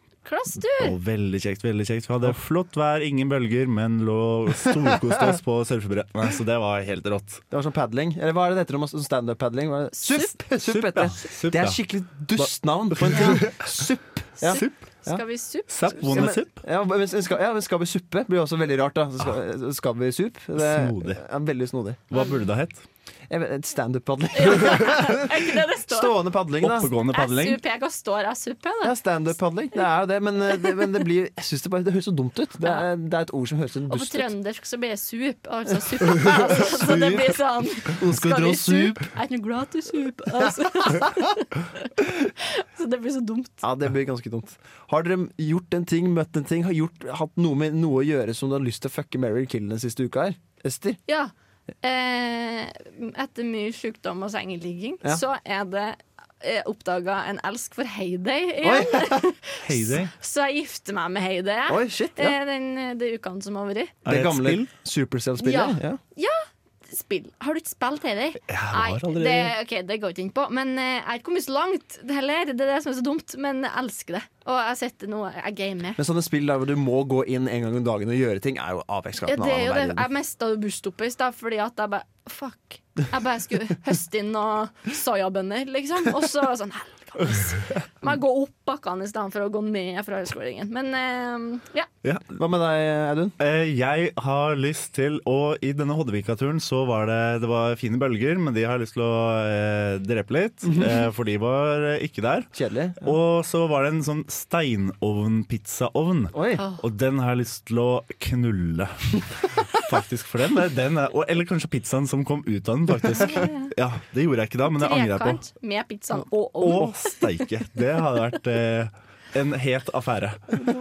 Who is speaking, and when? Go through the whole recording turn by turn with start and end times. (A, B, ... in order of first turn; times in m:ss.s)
0:00.2-0:01.0 A
0:00.7-0:07.4 B
0:07.5-0:15.2 C
0:10.0-0:10.4 A
0:10.6-0:11.8 B
0:12.4-0:13.9 B
0:14.4-0:16.4 A
0:14.5-0:14.8 B
0:15.7-0:16.5 B
0:16.0-0:22.1 C
0:20.6-0:21.2 B
0:22.1-0:22.8 B
0:22.1-0:22.4 A
0:23.3-0:26.9 C
0:24.4-0:26.1 A
0:26.6-0:27.6 B
0:27.1-0:29.0 A
0:28.8-0:34.3 C
0:33.9-0:43.6 A
0:36.0-0:39.1 C
0:43.6-0:51.0 C
0:51.1-1:04.0 A
0:58.6-0:59.2 C
0:59.6-1:00.1 B
1:01.7-1:02.4 C
1:04.0-1:06.0 C
1:04.1-1:04.7 B
1:05.4-1:16.0 A
1:08.5-1:09.5 B
1:16.0-1:20.1 C
1:19.3-1:31.9 A
1:32.0-1:32.4 B
1:32.4-1:33.4 C
1:33.4-1:55.4 B
1:40.7-1:41.0 C
1:42.5-1:43.1 C
1:46.3-1:46.6 C
1:46.6-1:46.8 A
1:53.2-1:53.7 A
1:54.6-1:57.4 A
1:56.6-2:00.5 B